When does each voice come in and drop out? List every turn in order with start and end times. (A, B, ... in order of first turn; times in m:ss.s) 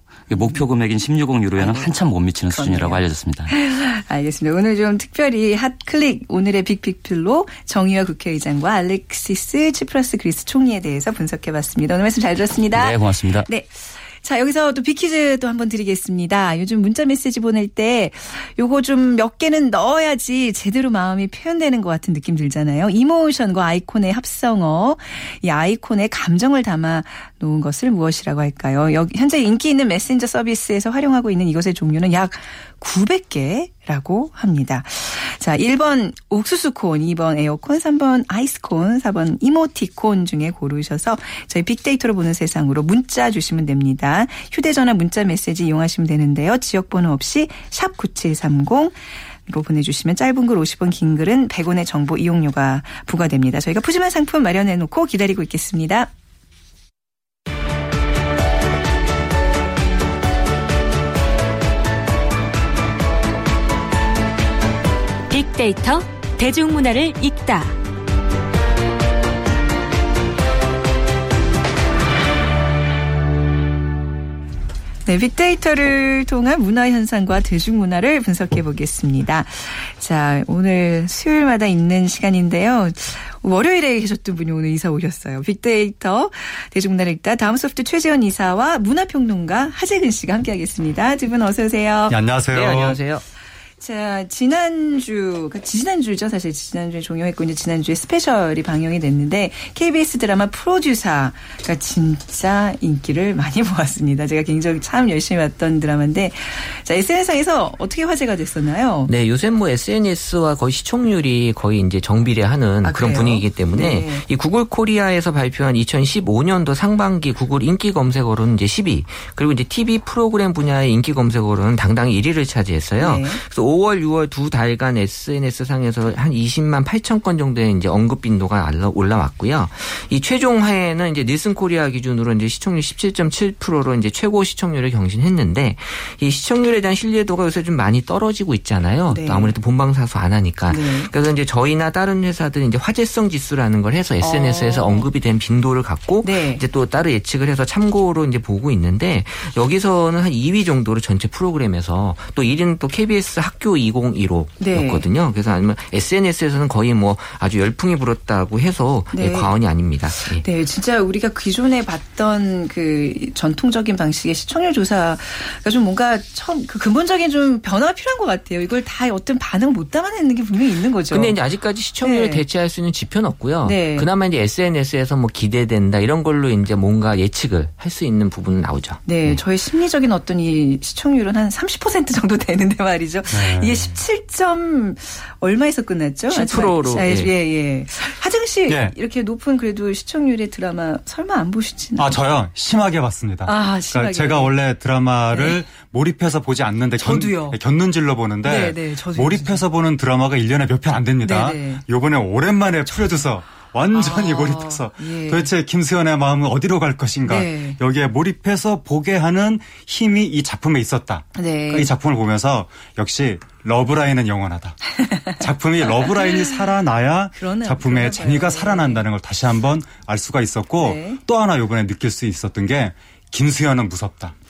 0:00.3-0:03.5 A
0:00.3-0:00.6 B
0:01.6-0:01.9 B
0:02.5-0:56.1 B
0:12.7-0:13.5 A
1:05.3-1:07.7 C
1:15.1-1:32.2 B
1:32.1-1:33.0 D
1:32.5-1:33.2 E
1:33.8-1:49.1 B
1:49.1-2:40.4 E
1:52.8-1:54.2 B
2:03.0-2:03.4 B
2:19.1-2:19.5 B
2:20.7-2:21.1 B
2:24.2-2:25.1 B
2:26.2-2:26.6 B
2:34.6-2:35.0 B
2:39.1-2:39.5 B
2:40.2-2:51.4 B
2:51.1-2:59.4 E
2:52.0-2:52.4 B
2:53.6-2:54.1 B
2:59.0-3:12.2 B
3:03.3-3:03.9 D
3:06.3-3:07.3 E
3:08.7-3:08.9 D
3:12.0-3:44.3 D
3:13.4-3:14.5 B
3:15.3-3:15.6 B
3:17.0-3:17.6 B
3:18.4-3:19.6 B
3:21.2-3:21.8 B
3:22.9-3:23.2 B
3:23.9-3:25.5 B
3:27.3-3:27.8 B
3:31.4-3:31.9 B
3:37.4-3:39.0 B
3:40.8-3:41.2 B